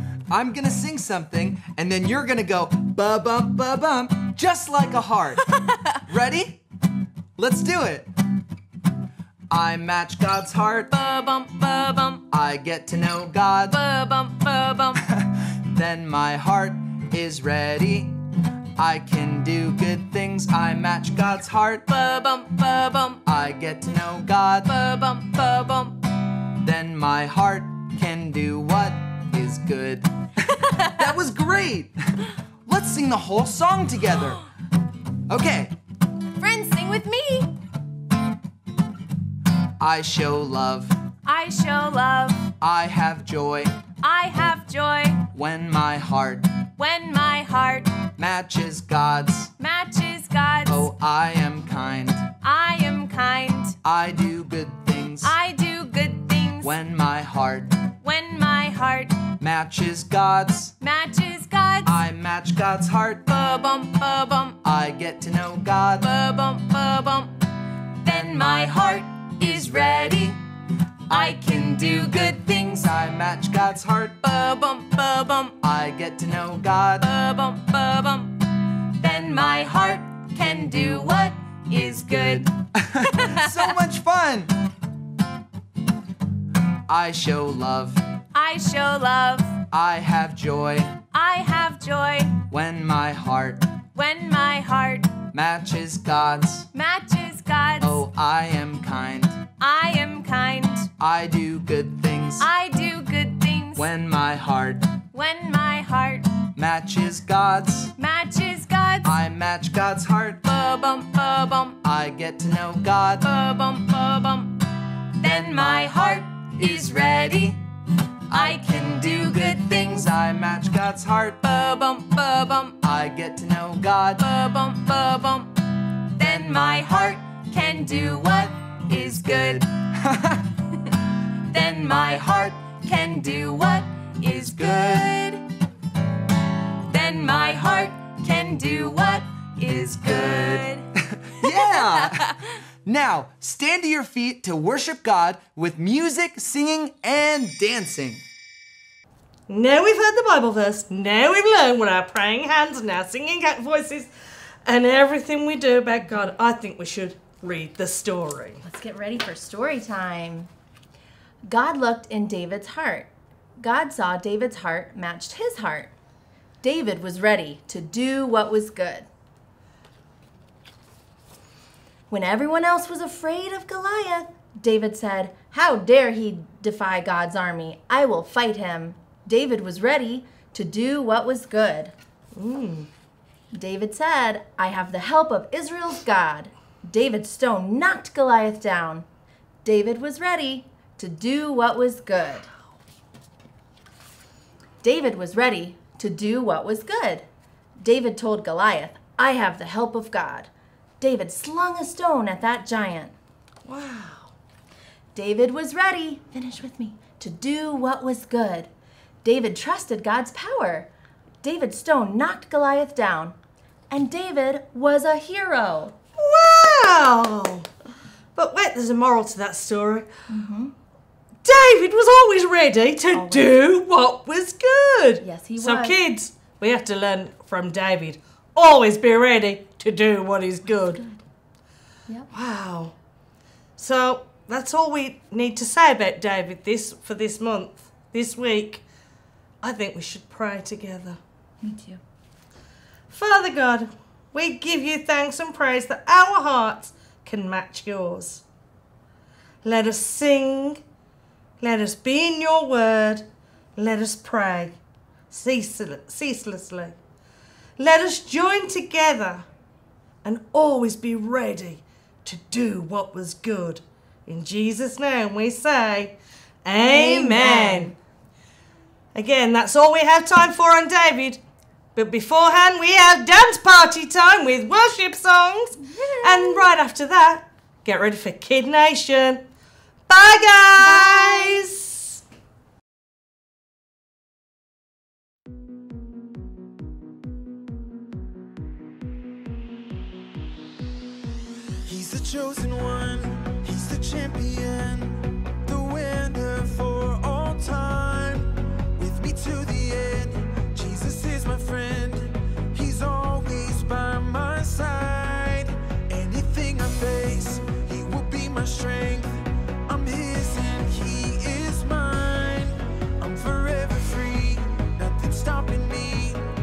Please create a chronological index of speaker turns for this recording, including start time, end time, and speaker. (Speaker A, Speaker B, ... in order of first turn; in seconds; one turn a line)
Speaker A: 0.3-6.6
Speaker A: 7.4-8.1
Speaker A: 9.5-10.9
Speaker B: 10.9-12.2
Speaker A: 12.3-13.8
Speaker B: 13.7-15.0
Speaker A: 15.1-18.2
Speaker A: 18.8-21.9
Speaker B: 21.9-23.2
Speaker A: 23.2-24.7
Speaker B: 24.6-26.0
Speaker A: 26.6-30.1
Speaker B: 30.7-31.0
Speaker A: 30.9-31.9
Speaker A: 32.6-34.4
Speaker A: 35.3-35.7
Speaker B: 36.4-37.5
Speaker A: 39.8-41.0
Speaker B: 41.2-42.5
Speaker A: 42.6-43.8
Speaker B: 44.0-45.3
Speaker A: 45.3-46.6
Speaker B: 46.8-48.1
Speaker A: 48.2-49.5
Speaker B: 49.6-50.9
Speaker A: 50.7-52.3
Speaker B: 52.4-53.8
Speaker A: 53.8-55.3
Speaker B: 55.2-56.7
Speaker A: 56.6-57.9
Speaker B: 58.0-59.3
Speaker A: 59.4-60.7
Speaker B: 60.8-62.0
Speaker A: 61.8-63.2
Speaker B: 63.2-64.6
Speaker A: 64.6-66.1
Speaker B: 66.0-67.5
Speaker B: 68.0-70.4
Speaker B: 71.1-72.8
Speaker A: 71.1-71.3
Speaker A: 72.7-74.2
Speaker B: 74.2-75.6
Speaker A: 75.6-77.1
Speaker B: 77.0-83.7
Speaker A: 82.8-84.6
Speaker A: 86.9-88.0
Speaker B: 88.3-89.6
Speaker A: 89.7-91.0
Speaker B: 91.1-92.5
Speaker A: 92.5-93.8
Speaker B: 93.9-95.2
Speaker A: 95.3-96.7
Speaker B: 96.7-98.0
Speaker A: 97.8-99.5
Speaker B: 99.6-100.9
Speaker A: 101.0-102.5
Speaker B: 102.4-103.9
Speaker A: 103.8-105.0
Speaker B: 105.1-106.4
Speaker A: 106.5-107.9
Speaker B: 108.0-109.2
Speaker A: 109.0-110.4
Speaker B: 110.4-111.8
Speaker A: 111.8-113.3
Speaker B: 113.2-114.6
Speaker B: 115.2-117.6
Speaker A: 116.6-117.3
Speaker A: 118.3-121.4
Speaker B: 118.3-120.1
Speaker B: 121.4-122.8
Speaker A: 122.8-124.2
Speaker B: 124.2-129.8
Speaker A: 130.0-130.4
Speaker B: 131.5-135.4
Speaker A: 134.3-135.1
Speaker B: 136.8-140.9
Speaker A: 141.2-148.2
Speaker B: 141.4-142.3
Speaker C: 149.5-154.1
Speaker C: 154.6-158.6
Speaker D: 158.6-160.5
Speaker D: 161.4-165.9
Speaker D: 166.6-169.1
Speaker D: 172.1-181.9
Speaker C: 182.3-182.9
Speaker D: 183.5-189.1
Speaker D: 189.6-192.5
Speaker D: 194.8-197.2
Speaker D: 197.8-203.1
Speaker C: 203.7-204.3
Speaker D: 205.1-208.7
Speaker D: 209.2-210.9
Speaker D: 211.4-213.4
Speaker D: 213.9-215.9
Speaker C: 216.2-217.7
Speaker C: 218.3-220.1
Speaker D: 220.3-220.7
Speaker C: 221.4-231.0
Speaker D: 223.1-223.6
Speaker D: 225.2-226.0
Speaker D: 230.9-231.2
Speaker C: 232.3-232.9
Speaker C: 233.8-238.8
Speaker C: 239.6-241.2
Speaker D: 241.6-242.0
Speaker C: 243.1-248.4
Speaker C: 249.6-250.8
Speaker C: 251.6-254.8
Speaker C: 255.3-256.9
Speaker C: 257.8-259.4
Speaker C: 260.2-267.9
Speaker D: 266.8-267.9
Speaker C: 269.1-271.4
Speaker C: 271.9-279.4
Speaker C: 280.1-282.2
Speaker E: 291.9-316.4